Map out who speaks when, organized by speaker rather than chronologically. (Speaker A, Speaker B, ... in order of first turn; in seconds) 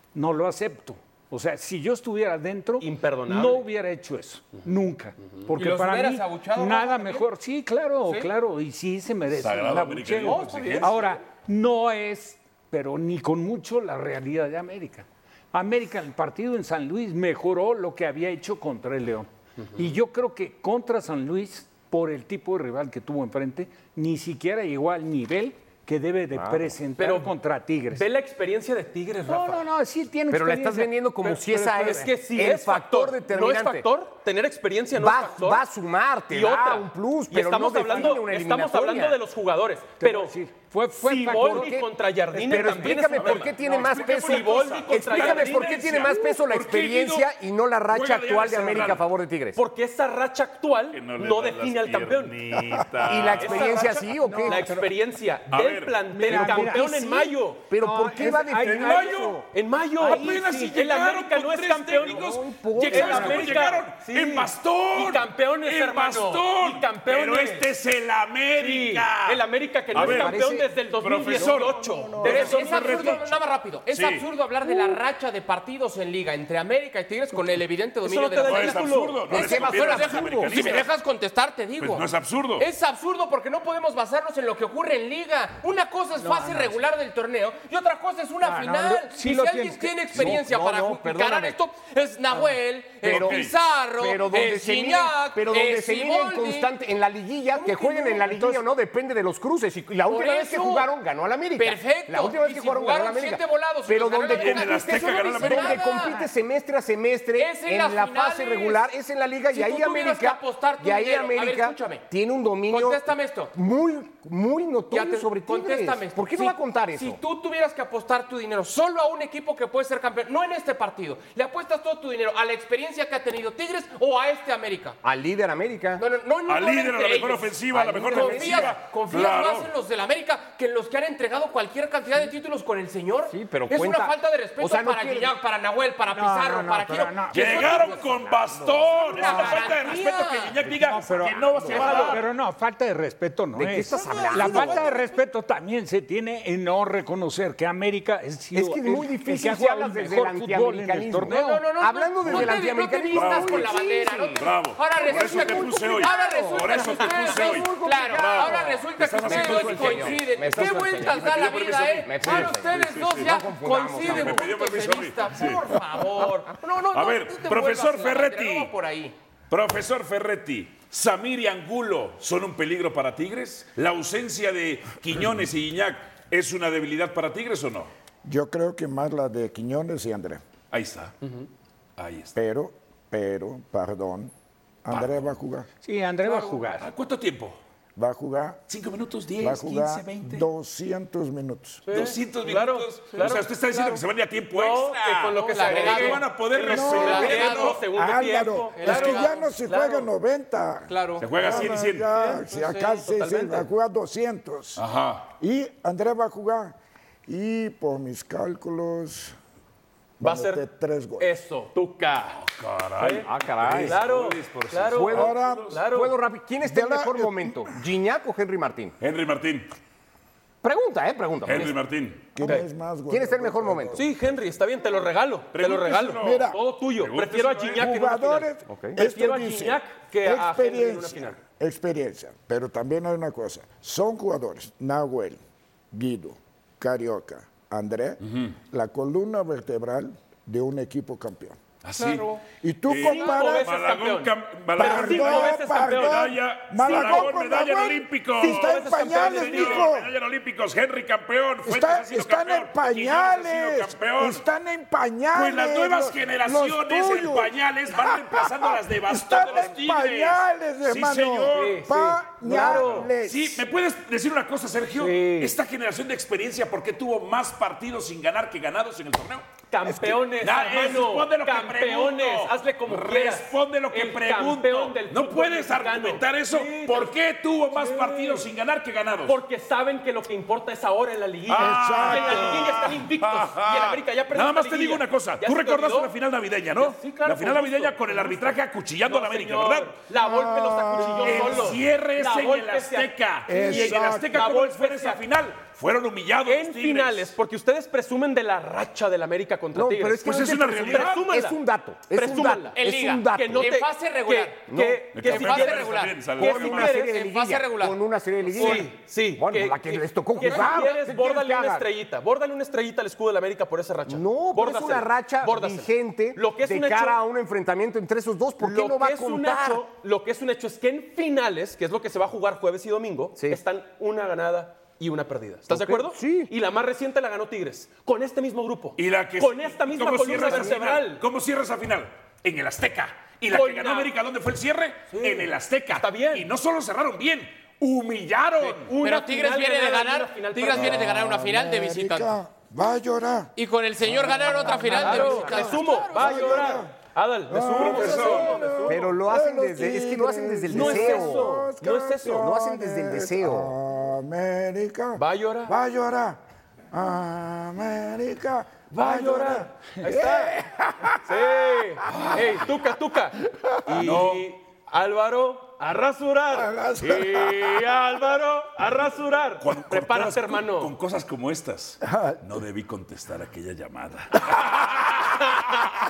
Speaker A: 0.1-28.1, 29.2-32.1, 40.0-41.7, 42.6-42.9, 54.2-54.8, 56.1-59.2, 60.0-60.7, 62.9-63.3, 86.2-86.8, 88.4-90.0, 136.1-138.3, 139.2-139.6, 140.7-151.6, 185.8-186.9, 265.0-265.5
Speaker B: 2.8-3.6, 10.3-10.9, 27.0-27.3, 27.9-29.6, 31.9-35.6, 36.3-40.3, 40.9-45.9, 49.5-52.4, 53.3-57.6, 58.8-62.2, 62.9-67.7, 68.6-73.1, 78.0-79.5, 141.7-142.2, 191.8-193.5, 194.5-200.1, 202.1-203.6, 210.2-210.6, 211.2-212.4, 213.0-213.2, 213.8-215.1, 215.7-216.2, 223.9-231.4, 243.0-246.3, 246.8-247.4, 248.4-249.9, 261.5-263.1, 269.7-277.1, 277.7-278.5, 279.2-286.1, 286.7-295.2, 296.4-301.6, 302.1-302.7, 303.3-307.1, 308.5-317.2, 318.6-331.2, 333.5-334.1, 335.1-336.5, 338.6-341.0, 344.8-349.0, 350.7-352.5, 355.2-355.7, 358.9-360.5, 361.2-370.9, 375.4-375.8
Speaker C: 5.5-7.2, 41.3-41.7, 72.2-78.8, 79.3-82.0, 82.6-96.7, 97.5-98.6, 100.1-100.9, 101.5-106.3, 107.3-108.9, 109.5-112.0, 112.7-113.5, 114.9-125.0, 126.0-138.2, 139.0-140.6, 143.9-144.9, 151.3-169.1, 193.7-194.0, 195.3-196.3, 196.9-197.8, 198.8-199.4, 200.9-201.3, 242.0-242.4, 302.7-304.7, 305.2-308.0, 308.6-308.8, 339.0-342.3, 343.6-346.6
Speaker D: 9.3-11.1, 42.9-47.3, 47.9-49.0, 50.9-54.0, 55.5-56.5, 58.8-59.4, 60.0-73.4, 73.9-74.2, 78.4-80.9, 81.8-82.7, 93.0-93.5, 104.3-106.0, 126.5-129.7, 137.3-142.2, 152.2-152.5, 153.1-153.7, 154.4-163.3, 164.0-165.8, 166.9-168.7, 169.5-177.9, 180.7-181.2, 182.0-182.3, 184.9-185.3, 186.8-187.6, 188.7-190.5, 191.9-197.8, 201.2-202.1, 204.8-205.3, 212.4-215.8, 219.0-219.7, 221.4-222.3, 225.5-227.9, 241.8-242.3, 242.8-254.4, 255.3-261.9, 262.5-269.5, 270.4-279.4, 281.4-290.0, 291.0-297.3, 300.2-301.3, 305.1-307.0, 328.9-338.9, 347.7-348.7, 362.1-362.6, 363.9-364.5, 369.6-375.5
Speaker E: 26.3-26.7, 30.3-33.9, 34.9-39.2, 41.1-49.6, 53.0-54.7, 57.7-59.4, 62.0-63.6, 69.9-70.7, 71.3-72.6, 79.3-80.8, 90.1-91.6, 93.0-93.4, 94.0-117.2, 125.0-126.0, 127.7-128.7, 133.3-135.3, 143.5-144.9, 148.5-154.5, 155.0-164.5, 213.1-214.1, 214.9-215.3, 215.8-218.9, 220.6-221.8, 223.1-224.0, 228.7-229.0, 299.7-303.7, 304.7-305.2, 306.4-311.9, 314.1-319.8, 325.7-326.5, 348.9-351.6, 352.3-353.7
Speaker F: 178.2-180.4, 182.3-184.3, 184.8-185.7, 187.9-188.6, 189.4-191.8, 196.7-204.8, 205.4-209.3, 210.2-211.3, 215.1-215.8, 216.6-217.7, 222.3-224.1, 226.2-226.6, 227.8-235.4, 235.9-241.6, 242.6-243.7, 244.8-250.1, 251.6-263.6, 269.9-270.1, 281.6-282.9, 290.2-291.7, 293.5-294.3, 340.7-346.9, 347.5-356.4, 356.9-361.5, 363.5-364.2, 366.5-367.8, 372.0-372.4